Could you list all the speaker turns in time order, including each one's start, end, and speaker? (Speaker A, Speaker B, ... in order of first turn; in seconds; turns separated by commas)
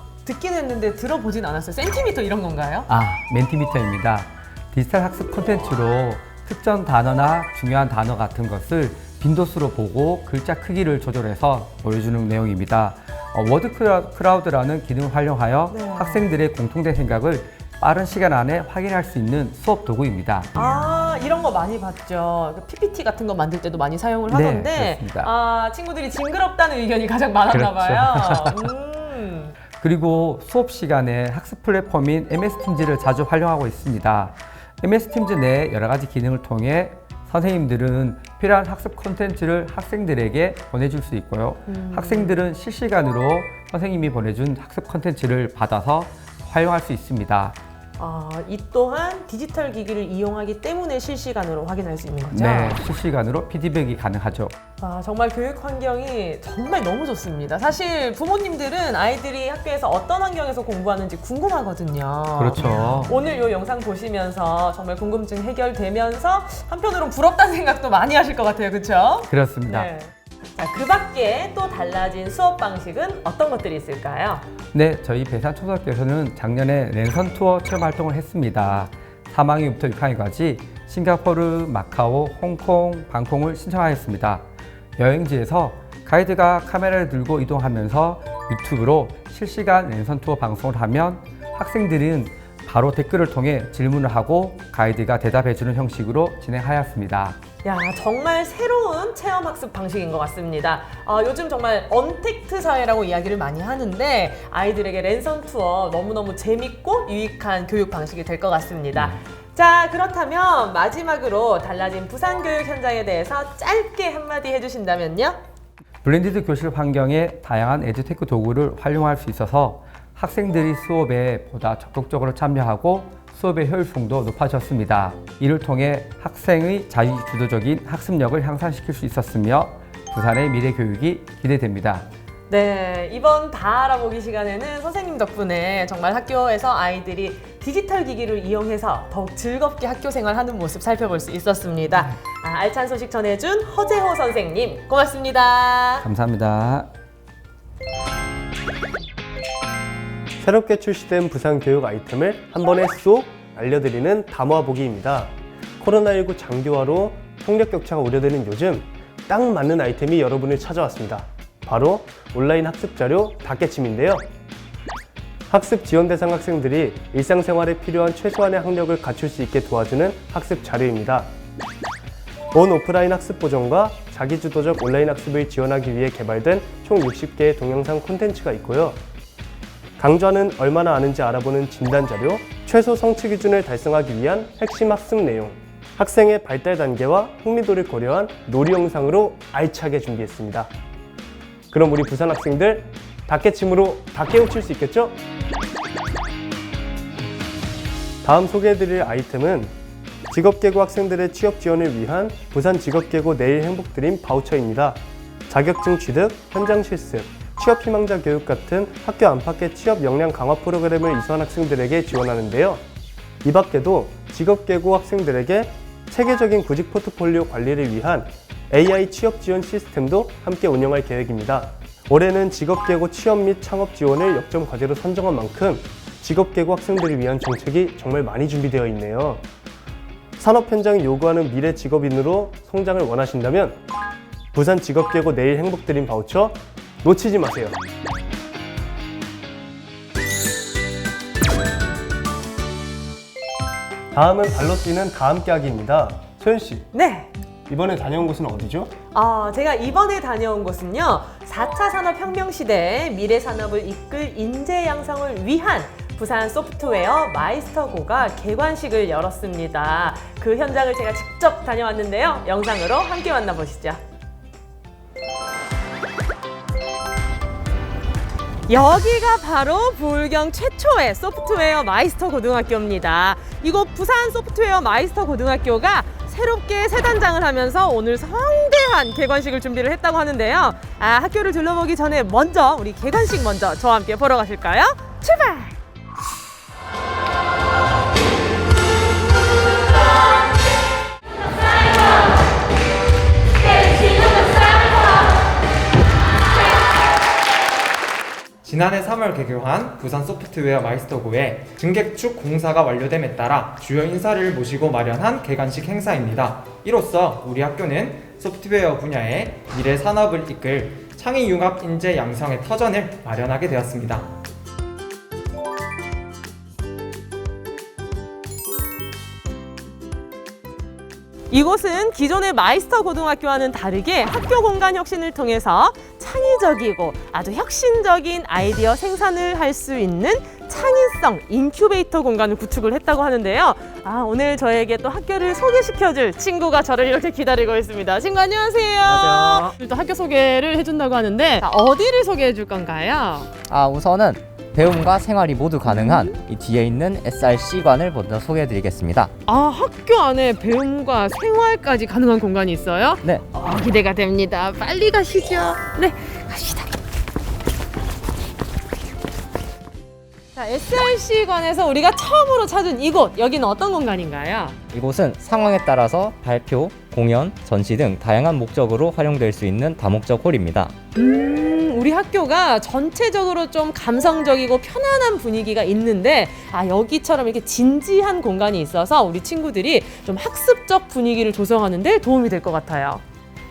Speaker A: 0.2-2.9, Speaker B: 2.9-20.6, Speaker A: 15.7-16.3, Speaker A: 20.5-29.5, Speaker B: 24.3-25.3, Speaker B: 27.5-28.5, Speaker B: 29.8-47.6, Speaker A: 41.7-42.4, Speaker A: 48.0-52.8, Speaker B: 52.3-54.5, Speaker A: 54.8-74.4, Speaker B: 62.4-63.1, Speaker B: 69.3-69.9, Speaker B: 74.7-84.4, Speaker B: 85.0-97.4, Speaker A: 97.6-115.4, Speaker B: 108.9-109.2, Speaker B: 116.0-132.1, Speaker A: 132.5-146.1, Speaker B: 146.0-146.9, Speaker C: 150.4-164.2, Speaker C: 165.5-171.3, Speaker C: 172.5-179.0, Speaker C: 180.0-190.7, Speaker C: 191.7-195.2, Speaker C: 198.2-199.7, Speaker C: 200.3-212.8, Speaker C: 213.4-229.4, Speaker C: 230.4-233.8, Speaker C: 234.5-237.8, Speaker C: 244.1-246.9, Speaker A: 246.9-247.3, Speaker C: 247.7-248.9, Speaker A: 249.1-264.0, Speaker A: 268.7-285.8, Speaker D: 298.6-314.3, Speaker A: 321.5-343.5, Speaker E: 339.1-339.7, Speaker E: 343.7-349.3, Speaker A: 345.9-346.4, Speaker A: 349.4-356.9, Speaker A: 360.5-364.8, Speaker E: 364.9-370.9, Speaker A: 371.1-383.2